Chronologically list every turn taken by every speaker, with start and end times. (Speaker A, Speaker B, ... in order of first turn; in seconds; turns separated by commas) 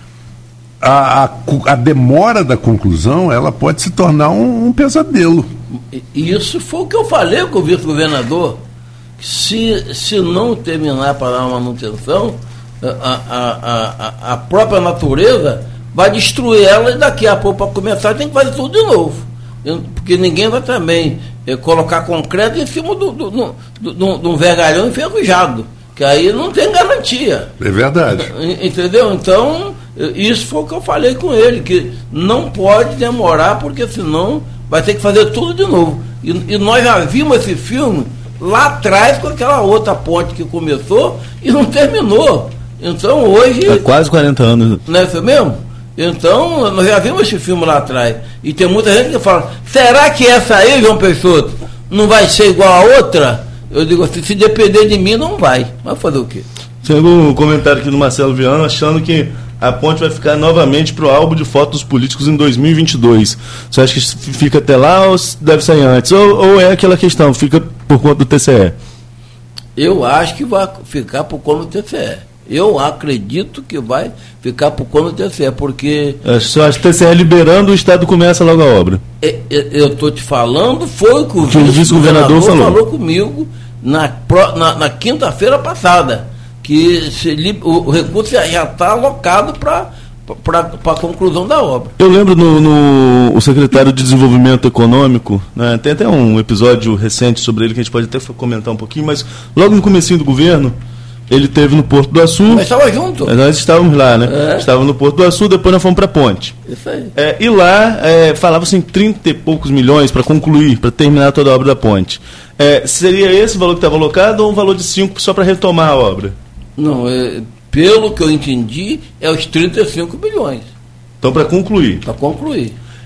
Speaker A: 0.8-5.5, Speaker B: 5.7-8.6, Speaker B: 9.2-27.5, Speaker A: 27.6-28.3, Speaker B: 28.1-43.8, Speaker C: 43.7-44.8, Speaker B: 44.9-56.5, Speaker C: 56.8-68.8, Speaker B: 69.8-76.2, Speaker C: 76.2-79.0, Speaker B: 79.2-91.9, Speaker C: 81.5-82.8, Speaker C: 92.0-100.8, Speaker C: 101.3-102.7, Speaker B: 102.5-103.3, Speaker C: 103.2-106.6, Speaker B: 104.2-104.7, Speaker B: 106.7-107.1, Speaker C: 107.2-116.3, Speaker B: 116.8-120.7, Speaker C: 121.2-122.0, Speaker B: 122.0-122.8